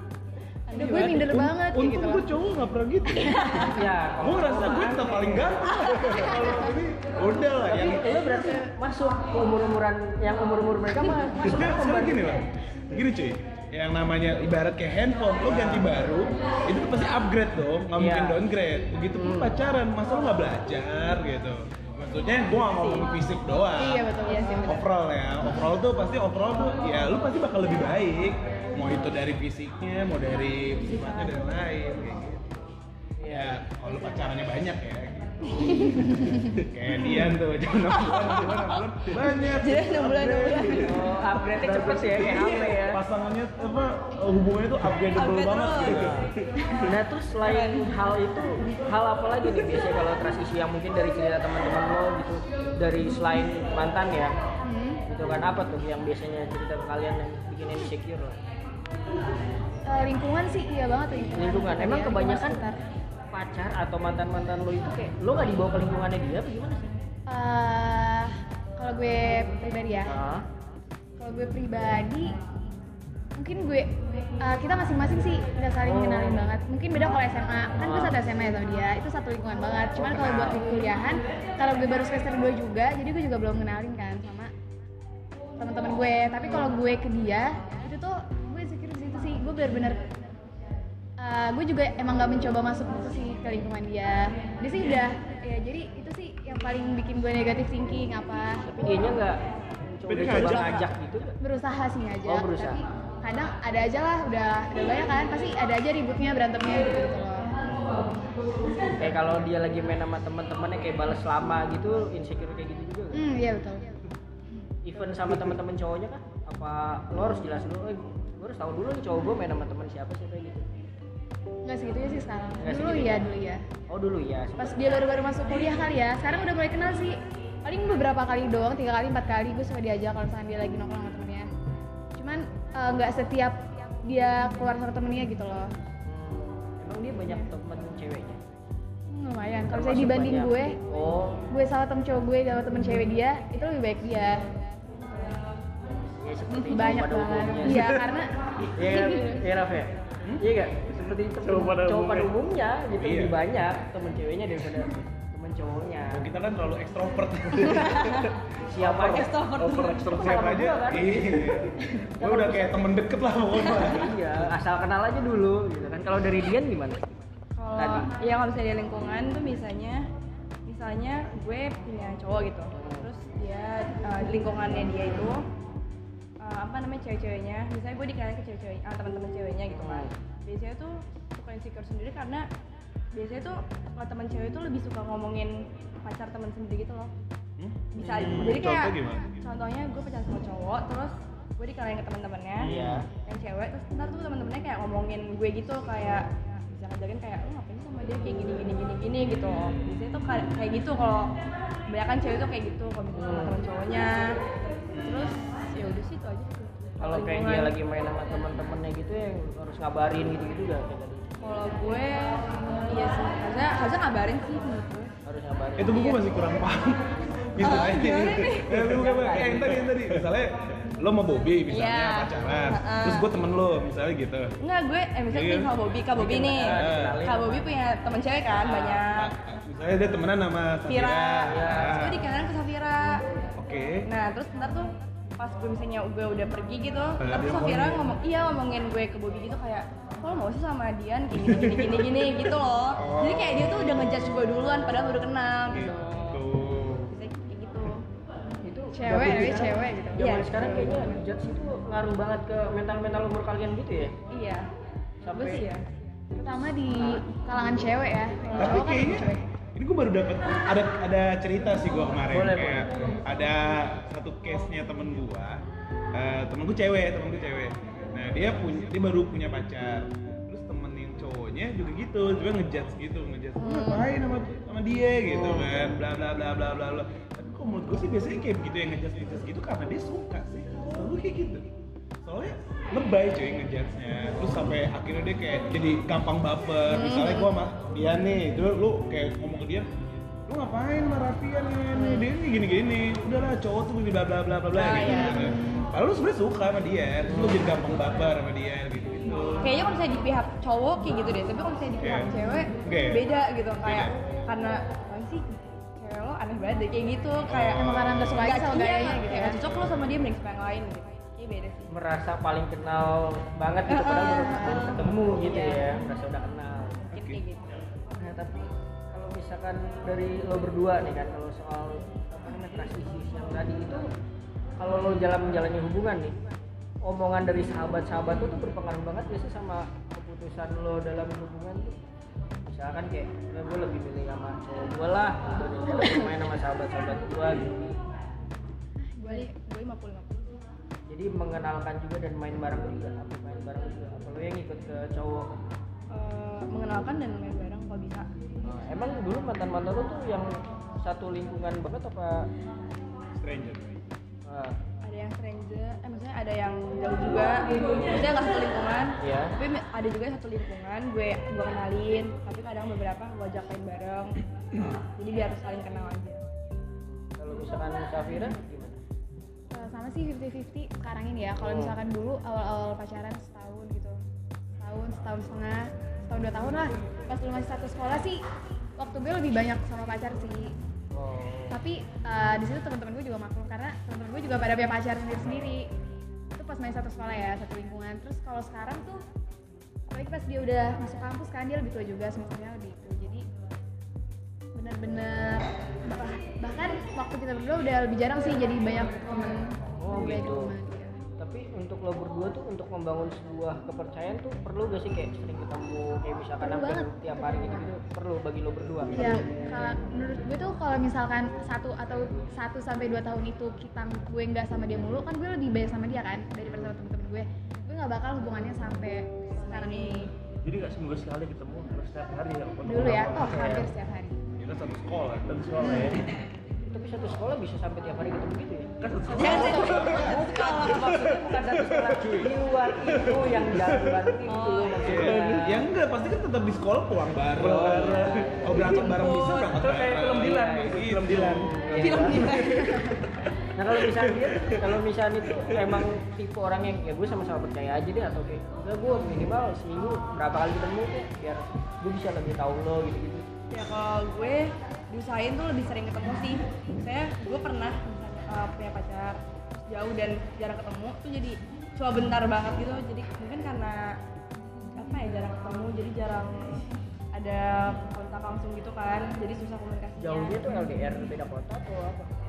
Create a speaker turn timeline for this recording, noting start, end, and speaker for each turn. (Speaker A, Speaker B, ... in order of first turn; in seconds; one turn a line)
Speaker A: 0.7-1.4
Speaker B: 0.7-2.3
Speaker C: 1.1-3.7
Speaker A: 3.1-3.7
Speaker D: 3.6-5.7
Speaker C: 4.2-8.6
Speaker A: 5.7-6.5
Speaker B: 6.2-6.7
Speaker D: 7.7-12.4
Speaker C: 11.4-24.1
Speaker D: 15.4-15.9
Speaker D: 18.0-18.4
Speaker D: 19.2-19.6
Speaker B: 23.8-24.9
Speaker A: 24.3-24.6
Speaker C: 24.7-32.6
Speaker A: 31.0-31.3
Speaker D: 33.2-33.6
Speaker C: 33.2-41.1
Speaker A: 35.6-36.1
Speaker A: 37.9-41.0
Speaker D: 40.8-43.0
Speaker E: 41.6-42.2
Speaker C: 41.7-46.1
Speaker A: 45.1-46.1
Speaker D: 45.9-46.3
Speaker D: 46.8-54.3
Speaker A: 47.4-47.9
Speaker B: 54.6-55.0
Speaker D: 55.1-58.4
Speaker B: 59.9-62.8
Speaker D: 61.3-62.6
Speaker D: 63.3-66.9
Speaker B: 67.3-70.1
Speaker D: 70.1-70.7
Speaker B: 71.2-72.3
Speaker B: 73.4-84.5
Speaker D: 75.8-76.5
Speaker D: 77.8-78.2
Speaker D: 80.0-80.6
Speaker B: 85.6-90.0
Speaker B: 91.2-98.6
Speaker D: 98.6-99.4
Speaker D: 99.9-101.4
Speaker C: 100.1-100.9
Speaker E: 100.1-100.8
Speaker B: 101.4-107.5
Speaker D: 102.2-102.8
Speaker D: 109.0-113.2
Speaker B: 113.1-114.0
Speaker D: 114.8-120.7
Speaker B: 121.7-123.7
Speaker D: 122.6-123.3
Speaker D: 123.9-125.0
Speaker B: 124.6-131.5
Speaker B: 132.2-135.7
Speaker D: 136.1-138.4
Speaker B: 139.1-140.8
Speaker D: 139.7-141.4
Speaker B: 141.5-144.5
Speaker D: 145.9-148.0
Speaker B: 146.6-149.4
Speaker D: 148.8-156.3
Speaker E: 151.1-152.3
Speaker C: 153.0-153.4
Speaker C: 156.1-158.2
Speaker A: 157.6-158.3
Speaker D: 158.7-159.4
Speaker E: 158.8-160.1
Speaker A: 159.0-160.2
Speaker C: 159.8-164.3
Speaker D: 160.1-161.6
Speaker D: 162.2-162.9
Speaker D: 163.8-167.2
Speaker A: 167.6-170.1
Speaker D: 167.8-168.1
Speaker A: 170.7-175.4
Speaker D: 172.7-173.1
Speaker A: 176.4-182.5
Speaker D: 179.8-180.1
Speaker A: 183.1-187.1
Speaker C: 187.6-189.3
Speaker A: 187.9-201.3
Speaker D: 188.0-188.5
Speaker D: 192.6-193.1
Speaker C: 192.6-193.0
Speaker A: 201.9-204.3
Speaker D: 203.2-203.6
Speaker C: 204.9-205.3
Speaker A: 205.0-207.7
Speaker D: 207.0-211.3
Speaker A: 211.4-215.1
Speaker D: 215.2-216.1
Speaker C: 215.8-224.5
Speaker A: 215.9-216.2
Speaker A: 217.6-218.8
Speaker D: 218.7-219.8
Speaker A: 221.7-223.3
Speaker A: 224.6-229.3
Speaker C: 225.3-225.7
Speaker D: 226.2-227.7
Speaker C: 226.7-227.2
Speaker D: 228.6-229.0
Speaker C: 229.1-232.2
Speaker A: 230.9-233.2
Speaker D: 231.5-232.0
Speaker C: 233.6-234.1
Speaker A: 234.1-246.4
Speaker C: 237.2-238.0
Speaker C: 243.0-244.1
Speaker C: 245.7-247.1
Speaker A: 247.1-248.1
Speaker D: 248.7-254.2
Speaker B: 248.9-250.4
Speaker A: 250.2-251.1
Speaker A: 254.3-254.7
Speaker D: 255.2-255.7
Speaker A: 255.3-255.9
Speaker B: 256.3-259.4
Speaker D: 256.9-257.2
Speaker C: 258.6-281.7
Speaker D: 262.3-262.9
Speaker A: 273.6-274.1
Speaker D: 275.3-275.7
Speaker C: 282.2-289.9
Speaker A: 286.9-287.5
Speaker C: 290.5-299.7
Speaker A: 292.0-292.3
Speaker A: 294.8-295.5
Speaker D: 297.3-297.6
Speaker A: 299.6-311.9
Speaker C: 302.0-302.3
Speaker C: 302.8-303.2
Speaker C: 303.8-304.2
Speaker C: 307.5-308.5
Speaker B: 307.8-309.6
Speaker C: 309.7-310.0
Speaker D: 311.9-317.1
Speaker A: 313.9-315.0
Speaker B: 314.2-315.0
Speaker C: 317.1-317.4
Speaker A: 317.1-317.7
Speaker D: 318.2-324.1
Speaker D: 324.8-326.4
Speaker D: 327.0-332.0
Speaker D: 332.6-337.9
Speaker B: 339.0-339.5
Speaker A: 339.2-340.5
Speaker D: 341.1-345.5
Speaker A: 346.1-348.3
Speaker D: 348.6-350.5
Speaker D: 351.0-352.5
Speaker C: 353.4-354.0
Speaker D: 354.5-354.8
Speaker A: 355.0-364.4
Speaker D: 357.9-358.3
Speaker D: 359.2-359.5
Speaker A: 365.2-366.4
Speaker D: 367.1-369.0
Speaker B: 369.7-374.2
Speaker D: 371.6-372.0
Speaker B: 374.8-378.4
Speaker B: 379.0-380.7
Speaker D: 381.1-381.8
Speaker B: 381.7-385.9
Speaker B: 386.5-389.2
Speaker B: 390.1-393.4
Speaker B: 394.8-401.2
Speaker D: 400.0-400.8
Speaker D: 401.4-409.5
Speaker B: 406.6-407.9
Speaker B: 409.1-420.3
Speaker D: 416.6-416.9
Speaker A: 419.6-420.3
Speaker E: 420.6-423.8
Speaker B: 422.9-424.4
Speaker D: 423.4-423.9
Speaker C: 424.6-425.5
Speaker E: 425.5-426.2
Speaker D: 426.9-435.9
Speaker E: 429.0-432.4
Speaker A: 429.3-431.4
Speaker E: 433.0-434.3
Speaker A: 434.5-435.2
Speaker C: 435.0-441.7
Speaker E: 435.1-435.6
Speaker D: 437.6-439.0
Speaker E: 437.6-439.0
Speaker A: 438.9-439.7
Speaker E: 439.7-442.9
Speaker D: 440.2-443.1
Speaker A: 442.0-443.2
Speaker D: 443.8-453.5
Speaker E: 444.0-444.9
Speaker E: 445.6-446.0
Speaker A: 453.7-464.1
Speaker A: 465.0-466.8
Speaker A: 467.4-470.6
Speaker D: 470.2-472.3